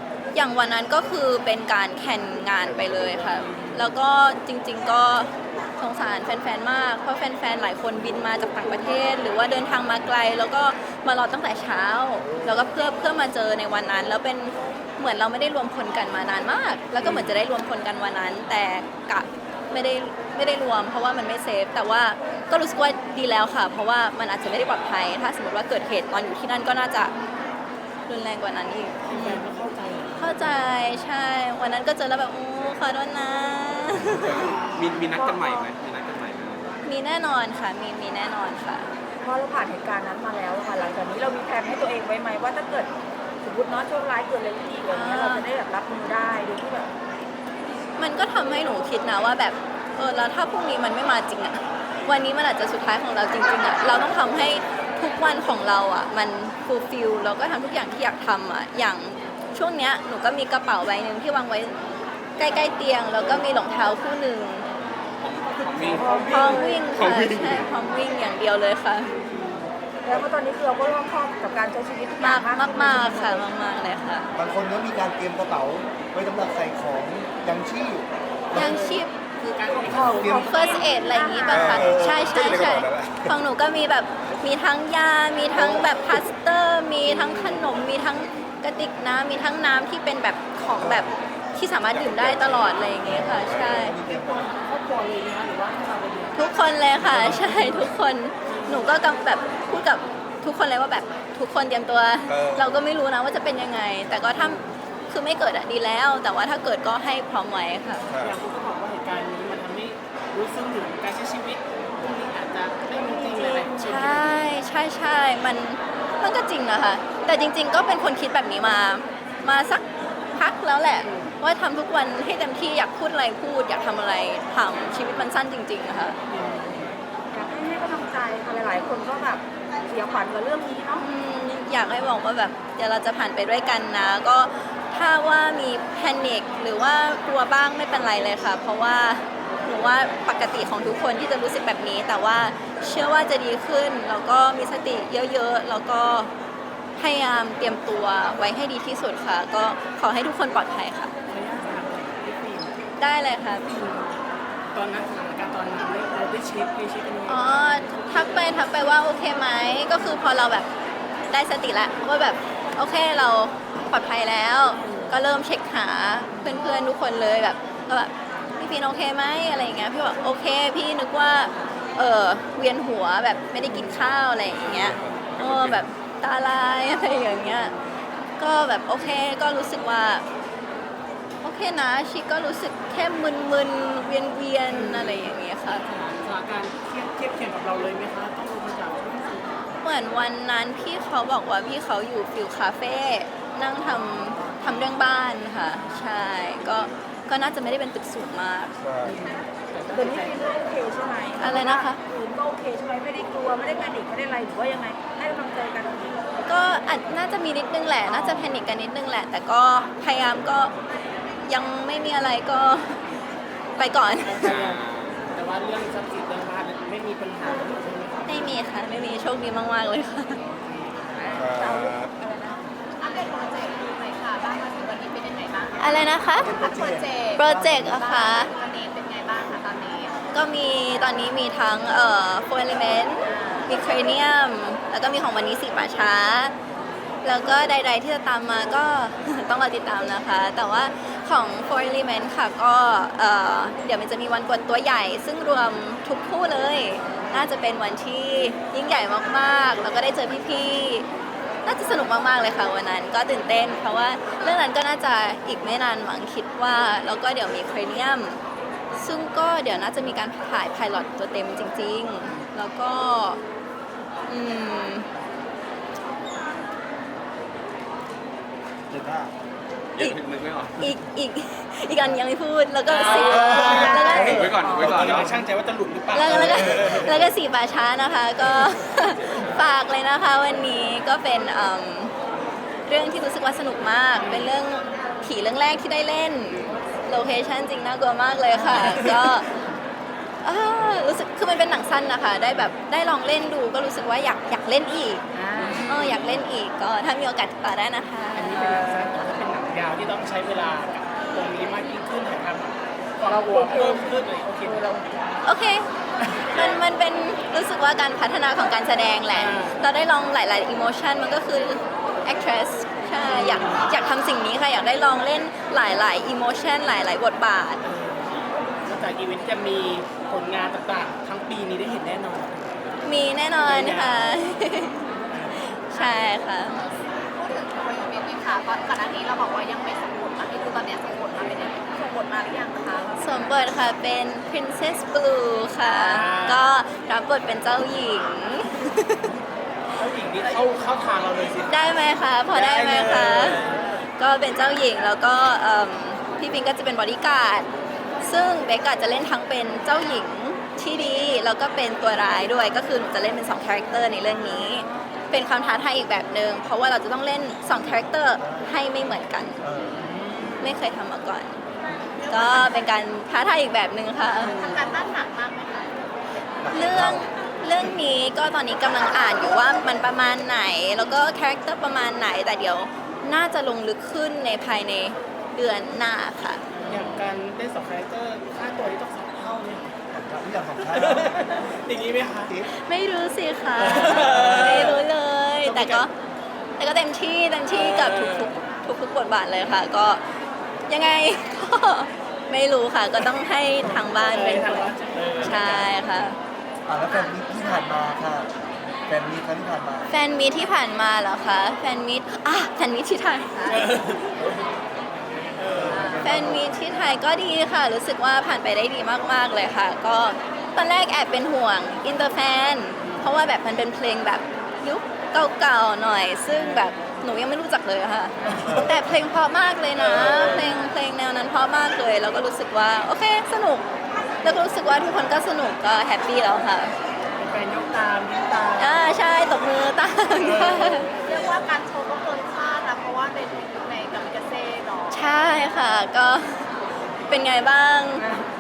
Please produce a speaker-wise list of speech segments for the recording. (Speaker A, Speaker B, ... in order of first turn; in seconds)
Speaker A: 0.3-27.1, 28.1-29.4, 30.2-34.5, 36.8-38.9, 44.9-45.5, 48.0-61.8, 62.4-64.7, 66.3-69.1, 72.2-74.3, 78.5-79.1, 80.4-94.0, 96.3-108.1, 113.7-126.2, 131.0-146.3, 147.0-151.1, 153.0-153.7, 157.3-160.7, 161.3-177.7, 178.4-180.2, 181.4-185.8, 189.8-198.7, 201.4-202.0, 206.4-210.7, 211.4-213.0, 213.8-214.5, 218.2-220.4, 225.8-226.5, 227.4-228.5, 230.3-236.5, 237.2-251.1, 251.6-258.4, 258.9-263.4, 264.3-265.1, 270.8-274.4, 276.1-282.1, 282.9-289.5, 290.4-295.2, 295.9-298.7, 305.4-305.9, 306.5-317.8, 323.0-325.0, 325.6-326.9, 333.2-339.3, 341.7-343.6, 344.2-347.7, 348.2-359.6, 360.6-361.6, 362.3-364.6, 366.7-376.6, 382.6-386.1, 386.8-390.2, 390.9-396.4, 400.1-403.7, 406.2-423.8, 424.4-426.9, 428.8-431.1, 435.1-436.7, 437.3-438.2
Speaker B: 2.8-3.9, 17.0-17.4, 29.1-30.7, 34.3-34.8, 65.6-66.5, 69.0-69.7, 78.5-81.0, 87.0-87.7, 93.3-97.9, 98.5-99.0, 104.4-104.7, 108.2-114.4, 121.0-121.3, 126.3-127.0, 151.3-152.8, 153.6-154.2, 154.7-157.8, 164.8-165.1, 166.3-166.6, 173.6-174.0, 174.7-175.2, 184.7-189.5, 199.0-200.4, 208.1-208.5, 214.2-218.6, 247.1-247.4, 272.9-277.3, 284.1-284.5, 288.5-289.4, 290.8-291.1, 295.5-296.3, 298.3-305.2, 309.3-309.8, 313.2-313.9, 317.8-323.0, 323.6-324.5, 325.3-325.8, 335.9-336.7, 339.9-341.8, 342.5-344.1, 359.9-360.8, 364.3-365.0, 376.7-379.9, 380.8-382.6, 383.8-385.0, 385.6-386.1, 387.7-388.6, 393.8-396.1, 403.6-404.6, 405.5-406.3, 413.0-413.3, 416.5-416.9, 418.4-418.9, 420.1-420.7, 427.4-429.2, 430.4-431.5
Speaker C: 34.2-36.8, 65.2-67.7, 214.4-215.2, 269.9-270.9, 273.7-275.3, 279.0-279.7
Speaker D: 35.1-35.6, 39.2-42.9, 43.4-46.9, 65.9-66.9, 70.0-73.5, 79.7-81.9, 113.1-113.8, 127.3-131.0, 199.9-206.3, 221.1-222.7, 273.4-274.8, 295.3-296.2, 298.6-299.2, 303.2-305.1, 331.6-333.1, 354.6-355.1
Speaker E: 74.3-78.7, 79.9-80.5, 93.4-93.9, 226.3-227.9, 268.9-269.3, 274.8-275.3, 357.7-358.7, 359.6-360.0, 366.6-367.3, 380.1-381.4, 396.9-398.5, 399.1-400.1, 405.7-406.8, 418.6-419.0
Speaker F: 81.5-83.4, 85.5-85.9, 90.8-91.2, 91.8-94.5, 102.3-102.8, 104.1-104.3, 108.1-108.4, 174.6-175.9, 198.8-199.2, 221.3-222.1
Speaker G: 223.0-230.1, 233.2-233.8, 325.9-326.4, 326.9-333.4, 364.4-366.1, 403.6-404.0, 406.0-406.2, 431.1-435.3